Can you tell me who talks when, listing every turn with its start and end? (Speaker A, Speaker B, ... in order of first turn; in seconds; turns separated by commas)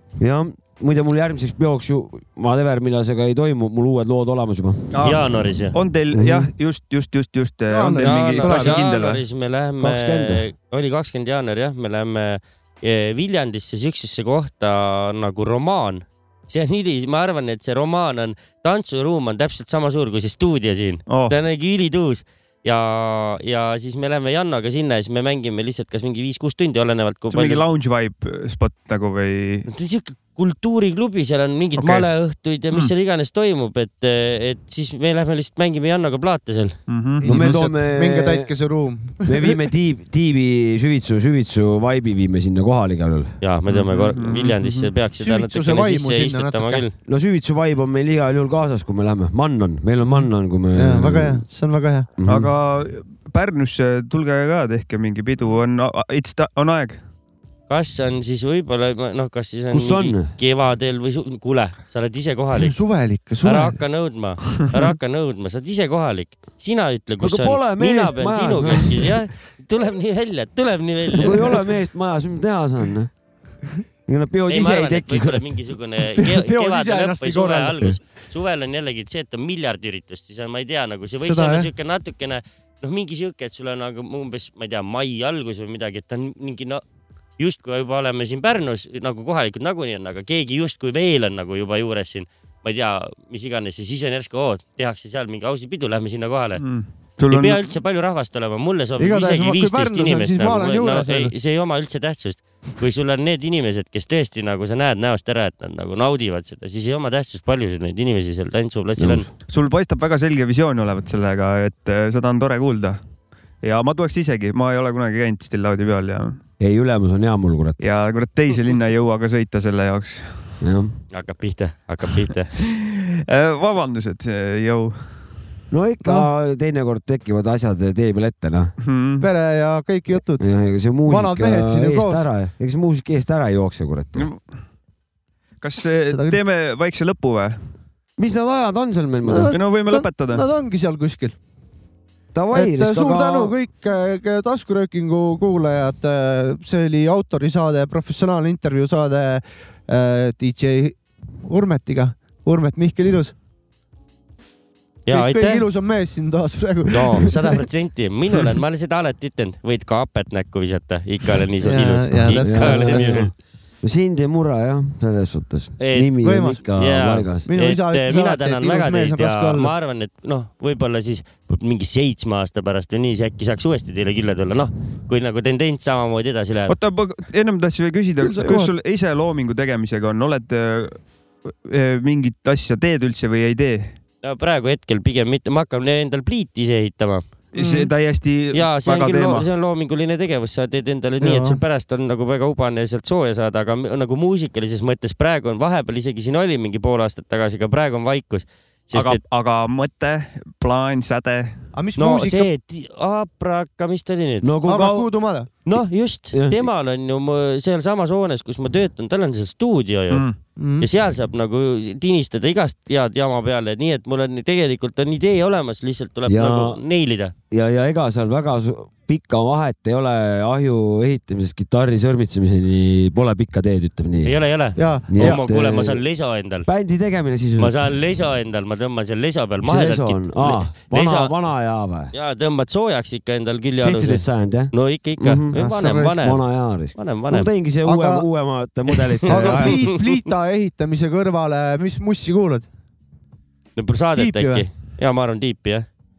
Speaker A: 0.2-4.9, Speaker B: 4.9-9.2, Speaker C: 5.0-5.8, Speaker A: 6.1-6.5, Speaker D: 7.7-8.8, Speaker C: 8.0-27.6, Speaker A: 9.8-10.4, Speaker B: 21.1-21.4, Speaker B: 27.3-29.7, Speaker C: 29.7-36.8, Speaker B: 31.8-32.1, Speaker B: 36.9-37.6, Speaker D: 37.2-39.6, Speaker A: 37.2-38.5, Speaker A: 39.2-43.4, Speaker C: 43.4-46.9, Speaker B: 43.7-44.9, Speaker D: 45.2-46.8, Speaker A: 47.0-51.4, Speaker D: 50.7-52.1, Speaker A: 52.2-52.5, Speaker B: 52.2-57.0, Speaker C: 57.7-62.8, Speaker A: 59.7-60.3, Speaker D: 62.5-63.8, Speaker C: 63.4-71.6, Speaker A: 67.2-69.2, Speaker A: 71.1-73.1, Speaker A: 74.1-75.5, Speaker C: 74.5-86.8, Speaker D: 76.0-77.8, Speaker D: 81.2-81.7, Speaker C: 87.4-96.6, Speaker B: 96.5-97.6, Speaker C: 97.3-109.3, Speaker D: 99.0-101.3, Speaker A: 109.0-109.3, Speaker B: 109.5-113.0, Speaker B: 113.6-116.4, Speaker A: 116.6-117.8, Speaker B: 117.8-120.5, Speaker A: 120.6-120.9, Speaker C: 121.1-122.5, Speaker B: 122.6-125.2, Speaker A: 125.7-128.7, Speaker B: 128.8-129.3, Speaker D: 129.2-132.2, Speaker A: 130.4-134.3, Speaker B: 134.1-134.4, Speaker B: 135.6-137.6, Speaker D: 136.1-136.4, Speaker A: 138.2-139.5, Speaker D: 139.2-141.3, Speaker B: 139.4-140.4, Speaker A: 142.3-143.6, Speaker D: 142.5-153.3, Speaker C: 155.1-155.7, Speaker D: 155.1-157.6, Speaker C: 156.9-163.3, Speaker D: 161.6-163.2, Speaker A: 162.4-163.3, Speaker A: 163.8-167.5, Speaker C: 165.8-166.1, Speaker D: 166.2-166.6, Speaker C: 166.7-176.7, Speaker D: 167.5-169.7, Speaker B: 176.7-183.9, Speaker D: 178.2-178.7, Speaker C: 184.2-187.2, Speaker B: 187.5-189.5, Speaker D: 187.6-187.9, Speaker C: 188.5-199.2, Speaker D: 191.2-191.6, Speaker B: 198.9-201.6, Speaker D: 201.7-202.5, Speaker C: 202.0-204.5, Speaker A: 204.4-205.1, Speaker D: 204.6-205.5, Speaker C: 205.6-210.2, Speaker A: 206.3-206.7, Speaker B: 210.1-210.4, Speaker D: 210.6-210.9, Speaker C: 210.8-217.3, Speaker A: 216.3-216.8, Speaker A: 217.5-224.3, Speaker C: 224.2-226.7, Speaker D: 224.8-225.4, Speaker A: 225.1-226.0, Speaker A: 226.7-227.8, Speaker C: 227.6-231.3, Speaker A: 229.6-232.1, Speaker C: 232.1-237.5, Speaker A: 233.8-239.9, Speaker D: 235.5-236.1, Speaker D: 237.8-238.2, Speaker C: 239.0-239.9, Speaker D: 239.2-242.7, Speaker C: 243.8-245.8, Speaker D: 244.2-244.6